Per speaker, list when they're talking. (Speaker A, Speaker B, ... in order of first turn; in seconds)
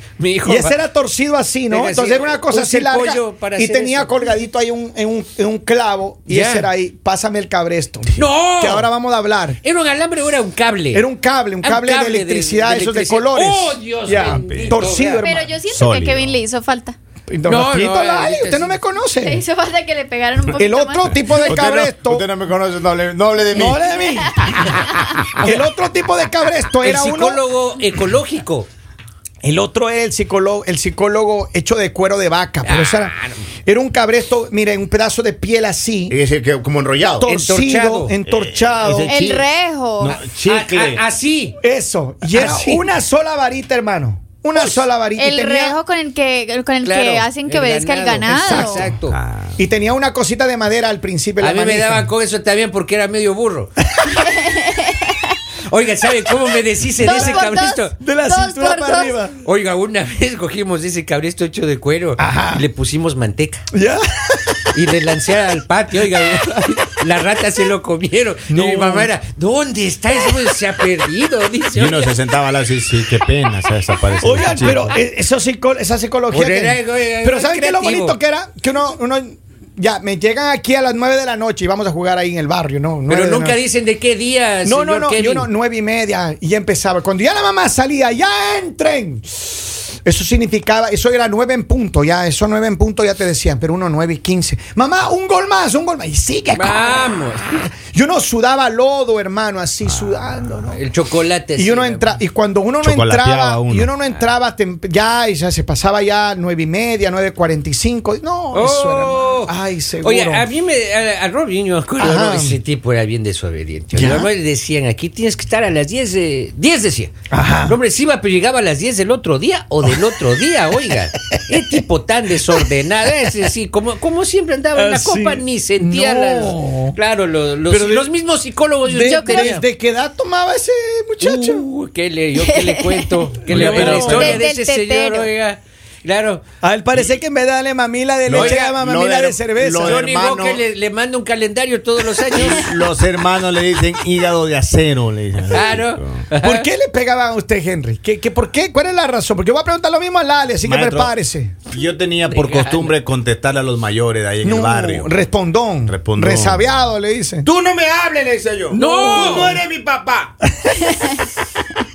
Speaker A: 0.2-0.8, 1.7-4.3, 6.3-6.7, 8.2-8.9, 9.6-11.1, 11.6-15.3, 17.4-18.8, 25.4-25.7, 26.8-28.7, 32.6-33.4, 37.2-38.1, 40.1-41.6, 42.2-42.8, 46.8-49.2, 51.4-53.7, 55.7-58.0, 59.4-63.6, 64.7-72.2, 74.4-74.9, 76.3-78.2, 83.1-85.5, 96.5-97.6, 100.7-102.2, 108.5-117.1, 117.6-129.6, 131.2-136.4, 138.3-138.7, 139.8-142.8, 145.5-146.7, 152.3-153.0, 158.7-159.6
Speaker B: 0.4-9.6, 10.9-15.5, 17.3-19.4, 20.5-22.3, 23.5-24.6, 25.4-27.4, 29.4-33.1, 33.6-36.2, 37.2-39.2, 41.6-45.8, 48.3-48.9, 49.6-52.1, 57.0-59.3, 62.2-62.6, 63.7-64.7, 68.5-69.1, 74.2-83.6, 84.6-89.5, 90.0-100.8, 101.6-110.5, 112.0-112.6, 113.9-114.3, 117.3-117.8, 124.7-127.0, 127.7-128.1, 128.8-131.7, 133.4-134.4, 136.6-140.2, 146.4-151.7, 154.4-157.5, 158.7-159.6, 160.5-161.1
Speaker C: 14.1-14.8, 15.7-16.4, 21.3-23.8, 24.4-25.4, 36.1-37.3, 38.3-39.5, 40.0-41.0, 49.1-49.6, 71.7-74.9, 102.8-103.9, 133.5-134.4, 138.3-140.6, 142.3-146.2, 150.6-151.1, 151.7-155.1, 155.9-156.7, 157.4-160.3
Speaker D: 15.2-17.0, 19.2-21.8, 24.4-25.0, 39.1-40.2, 45.1-48.9, 54.0-55.2, 57.0-59.2, 129.1-129.6, 132.4-133.3, 134.0-135.3